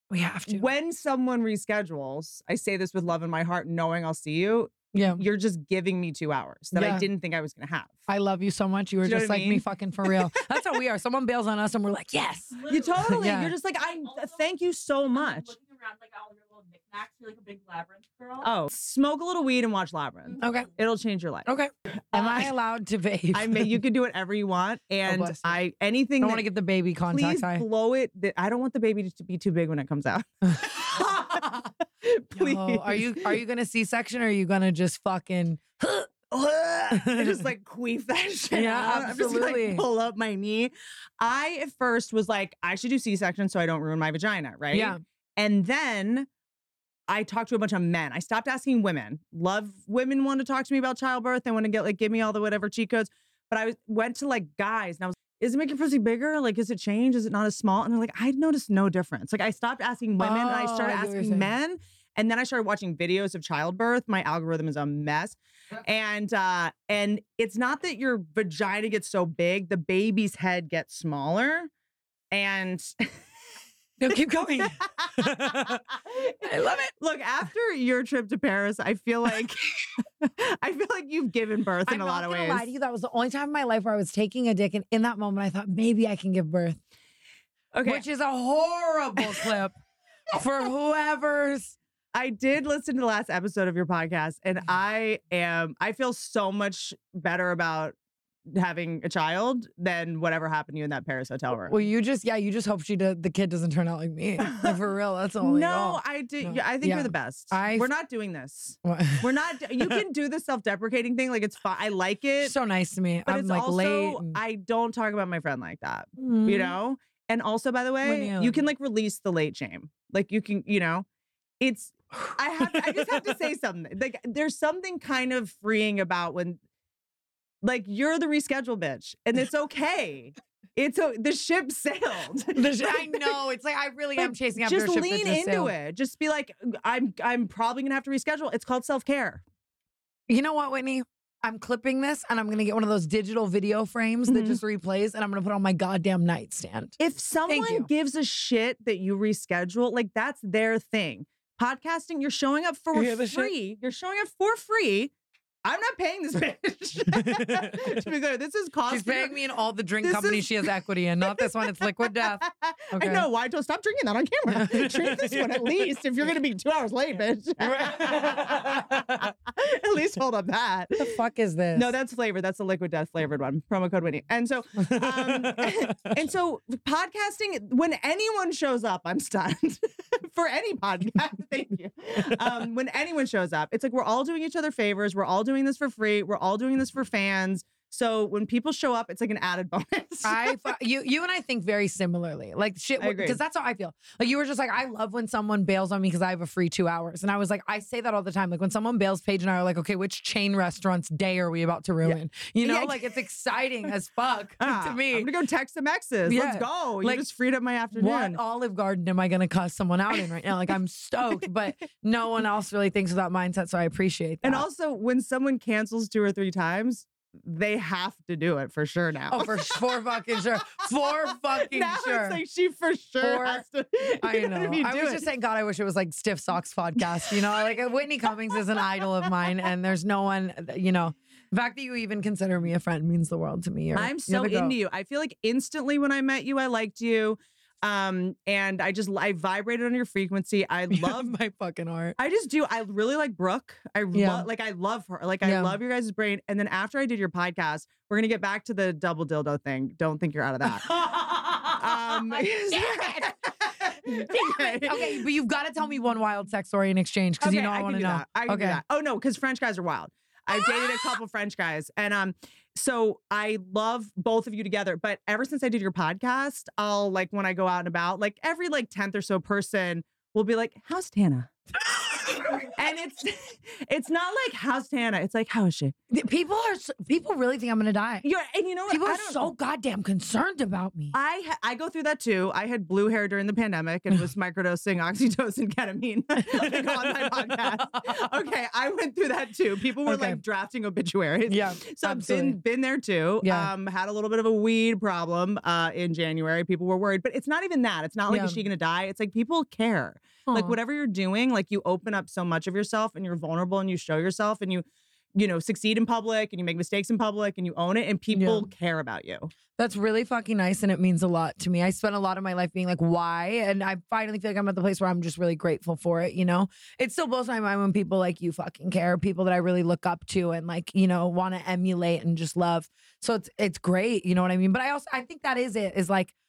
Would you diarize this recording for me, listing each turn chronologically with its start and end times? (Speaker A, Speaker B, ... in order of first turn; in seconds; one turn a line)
Speaker A: 0.1-0.7
Speaker B: 0.5-8.0
Speaker A: 4.9-5.2
Speaker A: 6.7-7.1
Speaker A: 8.1-13.5
Speaker B: 9.1-10.2
Speaker C: 12.6-13.2
Speaker B: 12.7-15.5
Speaker C: 14.0-14.5
Speaker C: 15.1-18.5
Speaker B: 18.4-21.5
Speaker A: 20.4-20.7
Speaker A: 21.5-23.8
Speaker B: 22.1-22.5
Speaker B: 23.3-26.5
Speaker A: 25.1-25.6
Speaker A: 26.2-27.7
Speaker B: 27.1-33.3
Speaker A: 30.6-31.6
Speaker A: 32.4-36.3
Speaker B: 36.3-46.3
Speaker A: 36.9-37.4
Speaker A: 38.5-39.9
Speaker A: 44.7-45.0
Speaker B: 47.1-71.7
Speaker A: 60.2-61.5
Speaker B: 72.3-73.1
Speaker A: 74.0-76.9
Speaker B: 74.8-76.3
Speaker B: 77.0-82.7
Speaker A: 81.9-86.8
Speaker B: 87.7-88.0
Speaker A: 87.8-89.8
Speaker A: 90.3-91.8
Speaker B: 92.1-98.0
Speaker B: 98.5-101.8
Speaker A: 101.7-107.9
Speaker B: 104.5-104.8
Speaker B: 105.4-112.5
Speaker A: 108.8-110.0
Speaker A: 112.4-114.4
Speaker B: 113.3-121.1
Speaker A: 116.2-116.8
Speaker A: 118.0-118.7
Speaker B: 121.6-126.6
Speaker A: 122.2-123.2
Speaker B: 127.6-133.4
Speaker A: 132.6-135.7
Speaker B: 134.2-139.4
Speaker A: 140.3-147.9
Speaker B: 144.3-144.6
Speaker B: 147.0-155.1
Speaker A: 152.9-153.5
Speaker B: 155.7-159.4
Speaker A: 157.1-158.0
Speaker A: 158.9-163.3
Speaker B: 160.0-160.7
Speaker B: 161.2-171.2
Speaker A: 164.5-165.8
Speaker A: 167.6-169.3
Speaker A: 171.0-171.9
Speaker B: 171.8-190.7
Speaker A: 174.8-176.2
Speaker A: 190.2-205.3
Speaker B: 193.0-193.4
Speaker B: 202.1-203.2
Speaker B: 204.6-208.4
Speaker A: 206.2-207.2
Speaker A: 207.9-214.7
Speaker B: 214.4-219.9
Speaker A: 219.3-222.4
Speaker B: 221.5-225.2
Speaker A: 223.2-223.7
Speaker A: 224.2-234.8
Speaker B: 233.9-241.3
Speaker A: 240.9-242.2
Speaker B: 242.2-250.9
Speaker A: 244.1-244.5
Speaker A: 245.4-245.8
Speaker A: 250.6-258.8
Speaker B: 251.7-255.3
Speaker B: 257.4-271.5
Speaker A: 260.5-261.1
Speaker A: 272.1-272.7
Speaker B: 272.8-275.9
Speaker A: 276.1-278.3
Speaker B: 278.2-279.5
Speaker A: 278.9-281.1
Speaker B: 281.1-309.5
Speaker A: 286.4-288.1
Speaker A: 290.0-290.4
Speaker A: 291.5-292.6
Speaker A: 293.4-293.7
Speaker A: 298.3-298.6
Speaker A: 300.5-300.8
Speaker A: 308.3-308.7
Speaker A: 309.8-326.3